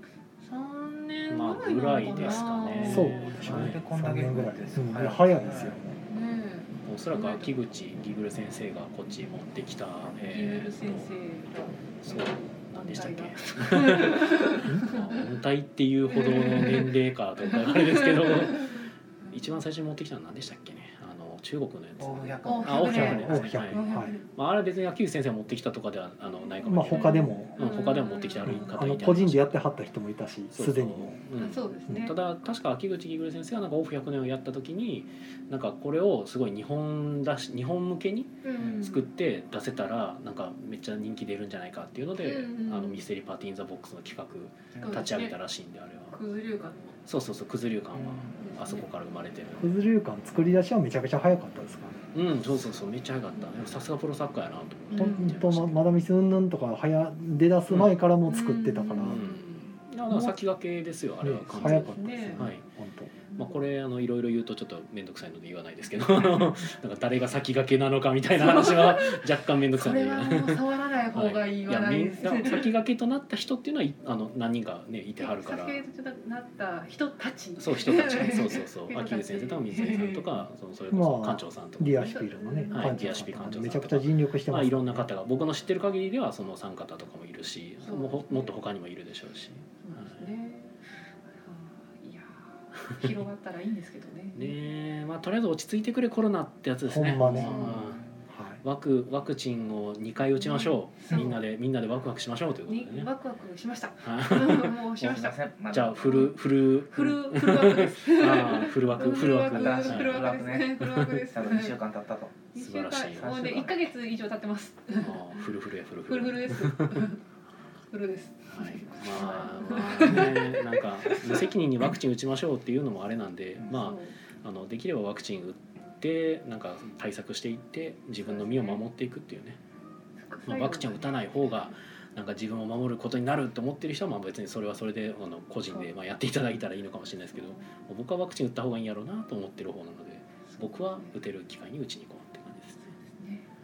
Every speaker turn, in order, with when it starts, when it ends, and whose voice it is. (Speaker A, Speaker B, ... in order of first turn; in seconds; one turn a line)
Speaker A: 0.4-3.2
Speaker B: 1.3-3.8
Speaker C: 2.3-6.0
Speaker D: 2.8-6.0
Speaker A: 6.1-7.5
Speaker B: 6.8-11.1
Speaker A: 10.2-15.2
Speaker B: 12.0-29.7
Speaker A: 16.1-19.5
Speaker C: 22.0-23.2
Speaker A: 22.4-24.2
Speaker D: 22.9-24.1
Speaker D: 26.6-27.7
Speaker A: 26.9-28.8
Speaker D: 28.4-31.2
Speaker B: 30.5-46.1
Speaker A: 31.4-32.1
Speaker A: 38.4-39.1
Speaker A: 42.2-43.0
Speaker C: 44.7-45.0
Speaker A: 44.8-45.4
Speaker A: 46.1-47.0
Speaker B: 47.0-49.7
Speaker C: 48.0-48.3
Speaker A: 48.4-48.8
Speaker D: 49.6-52.0
Speaker B: 52.1-55.9
Speaker A: 54.9-55.4
Speaker D: 54.9-59.2
Speaker A: 58.2-59.8
Speaker B: 59.0-62.6
Speaker D: 60.1-60.4
Speaker D: 61.2-63.1
Speaker A: 61.5-62.5
Speaker A: 63.3-63.6
Speaker B: 63.4-75.8
Speaker A: 66.2-66.4
Speaker A: 68.3-72.7
Speaker A: 75.2-80.4
Speaker B: 77.6-90.3
Speaker D: 80.9-85.0
Speaker A: 82.0-83.2
Speaker A: 87.8-88.6
Speaker A: 89.8-94.5
Speaker B: 92.8-93.1
Speaker B: 94.3-98.0
Speaker D: 96.8-98.6
Speaker A: 97.4-97.8
Speaker C: 97.8-98.0
Speaker B: 98.6-103.1
Speaker A: 100.4-101.4
Speaker A: 102.7-105.4
Speaker B: 104.0-104.8
Speaker C: 105.0-106.3
Speaker B: 105.7-110.3
Speaker A: 106.0-111.8
Speaker C: 109.0-112.4
Speaker B: 110.8-111.2
Speaker A: 112.5-115.4
Speaker B: 112.5-113.3
Speaker C: 113.1-113.8
Speaker B: 115.0-117.1
Speaker A: 116.0-117.2
Speaker A: 117.9-121.5
Speaker B: 118.5-129.6
Speaker A: 123.7-124.1
Speaker A: 128.2-128.8
Speaker A: 130.2-131.7
Speaker B: 130.4-142.8
Speaker A: 137.3-137.7
Speaker A: 140.5-141.2
Speaker A: 142.9-143.4